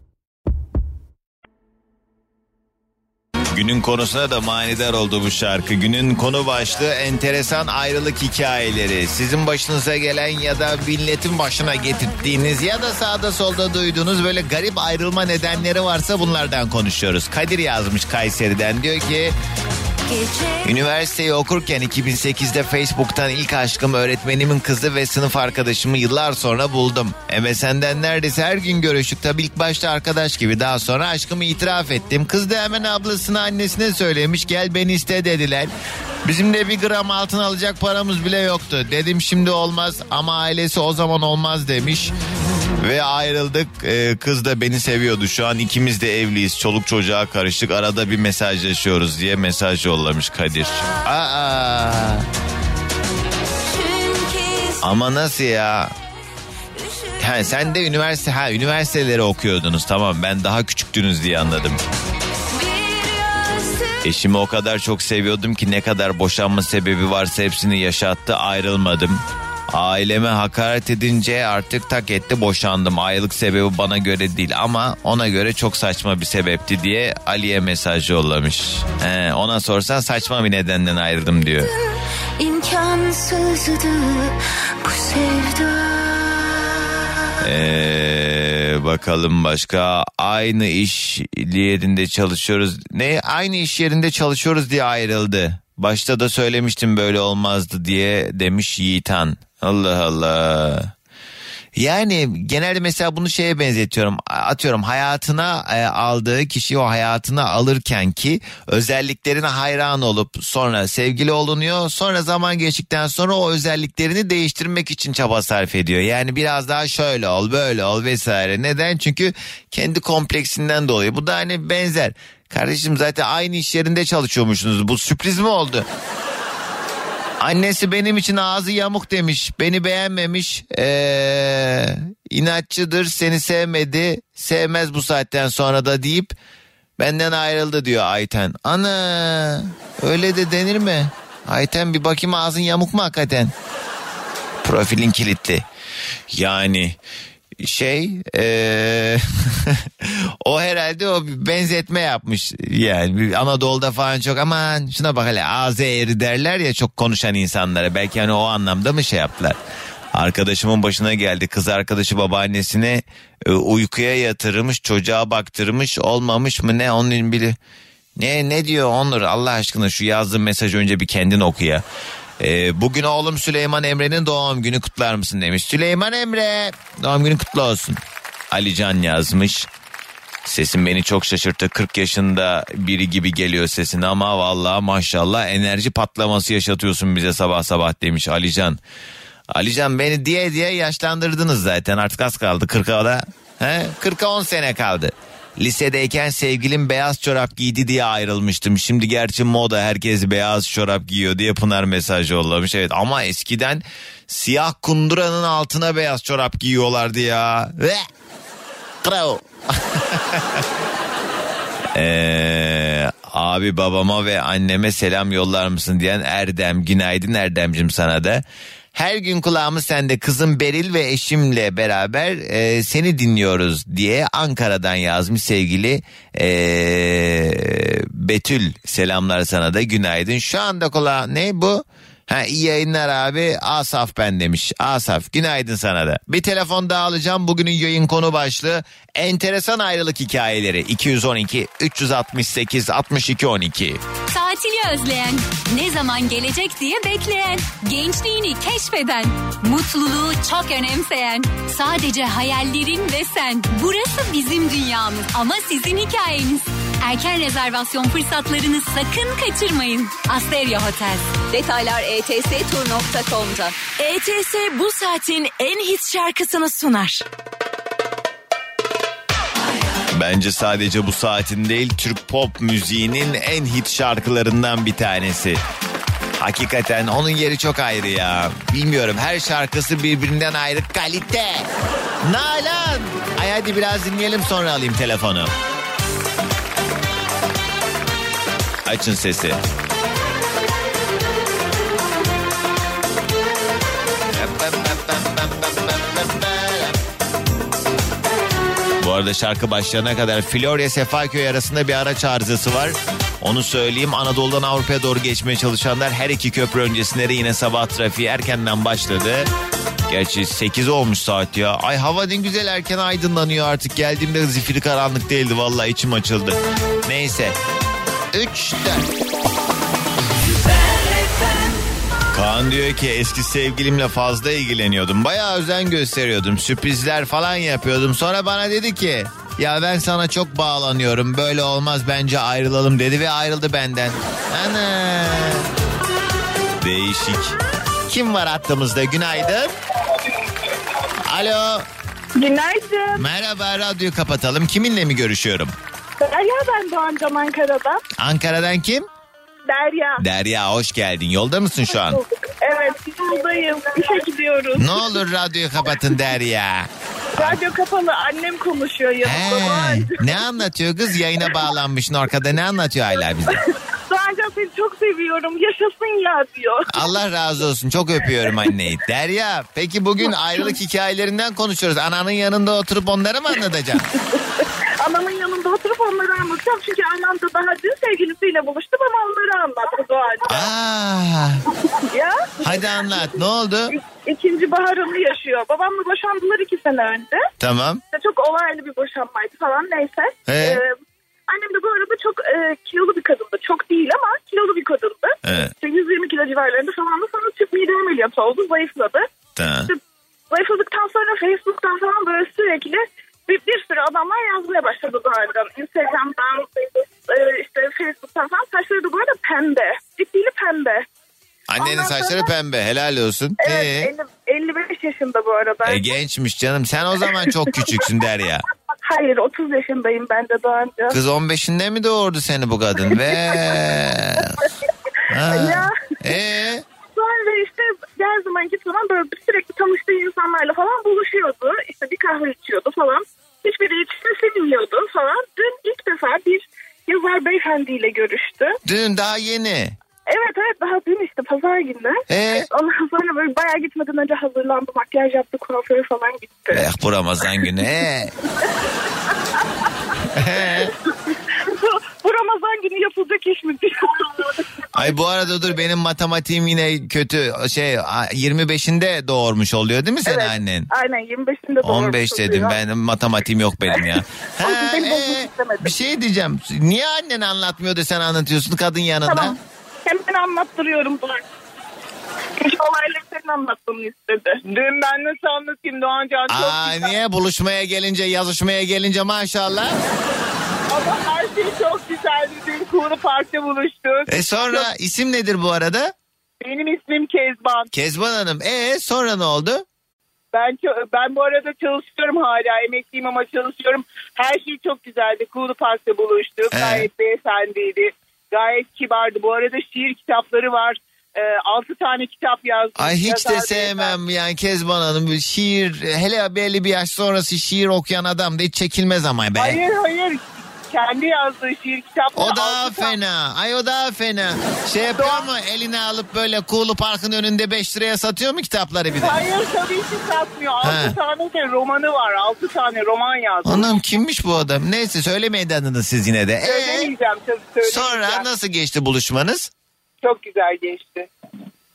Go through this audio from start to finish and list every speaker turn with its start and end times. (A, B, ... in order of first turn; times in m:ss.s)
0:03.5-0:19.4 A
0:20.1-0:20.6 B
0:20.6-0:35.7 A
0:36.2-0:42.1 A
0:42.8-0:52.3 A
0:53.6-0:54.8 B
0:54.8-0:55.9 A
0:56.8-0:57.6 B
0:57.2-1:01.8 A
1:02.5-1:04.1 B
1:04.0-1:21.7 A
1:22.4-1:26.6 B
1:27.4-1:40.9 A
1:41.8-2:05.9 A
2:07.4-2:16.3 A
2:17.0-2:23.5 A
2:24.6-2:25.6 A
2:26.3-2:27.0 A
2:27.6-2:39.6 A
2:40.1-2:47.6 A
2:48.2-2:51.8 A
2:52.4-2:58.0 A
2:58.5-2:59.7 A
3:00.4-3:08.8 A
3:09.5-3:28.0 A
3:29.0-3:30.6 A
3:32.0-4:04.0 A
4:04.3-4:23.9 C
4:23.9-4:27.2 B
4:30.1-4:35.6 A
4:36.4-4:41.7 A
4:42.2-4:45.5 A
4:48.8-4:49.6 A
4:54.3-4:57.0 A
4:59.0-5:09.5 A
5:10.1-5:17.6 A
5:18.3-5:19.1 A
5:22.3-5:35.7 A
5:36.8-5:37.6 A
5:38.1-5:39.7 A
5:41.2-5:41.9 A
5:42.4-5:43.2 D
5:43.1-5:45.8 A
5:46.2-5:48.0 D
5:48.2-5:49.1 A
5:49.7-5:50.2 D
5:50.2-5:52.2 A
5:52.1-5:55.1 D
5:54.8-5:57.6 A
5:57.5-6:00.1 D
5:59.2-6:03.6 A
5:59.4-5:59.8 E
6:04.1-6:07.1 D
6:06.9-6:14.0 A
6:15.0-6:20.6 D
6:20.5-6:21.6 A
6:22.1-6:23.3 D
6:22.6-6:23.9 A
6:24.0-6:27.5 D
6:27.6-6:28.0 A
6:28.1-6:30.9 D
6:30.5-6:30.8 A
6:31.5-6:39.2 D
6:35.4-6:35.7 A
6:39.6-6:39.9 A
6:40.5-6:51.0 D
6:51.7-6:54.1 A
6:51.8-6:52.5 D
6:53.6-6:56.0 D
6:55.8-6:58.6 A
6:59.0-7:01.2 D
7:01.1-7:04.6 A
7:05.3-7:06.8 A
7:05.5-7:05.9 D
7:07.2-7:18.8 D
7:18.8-7:20.0 A
7:20.3-7:26.9 D
7:22.3-7:22.7 A
7:26.7-7:28.3 A
7:30.3-7:30.9 A
7:31.6-7:34.6 D
7:35.0-7:40.9 A
7:40.3-7:42.8 D
7:41.8-7:49.6 A
7:44.0-7:45.9 D
7:49.3-7:51.4 D
7:52.6-7:54.6 D
7:54.7-7:57.2 E
7:56.5-8:00.0 A
8:00.9-8:04.9 E
8:04.3-8:06.1 A
8:06.6-8:07.9 E
8:07.9-8:09.8 A
8:10.5-8:24.2 E
8:16.7-8:17.1 A
8:23.0-8:29.8 A
8:29.6-8:33.2 E
8:32.4-8:39.4 A
8:35.2-8:35.5 E
8:39.2-8:44.0 E
8:40.8-8:41.1 A
8:43.6-8:47.1 A
8:46.6-8:48.5 E
8:47.8-8:49.7 A
8:50.2-8:51.3 E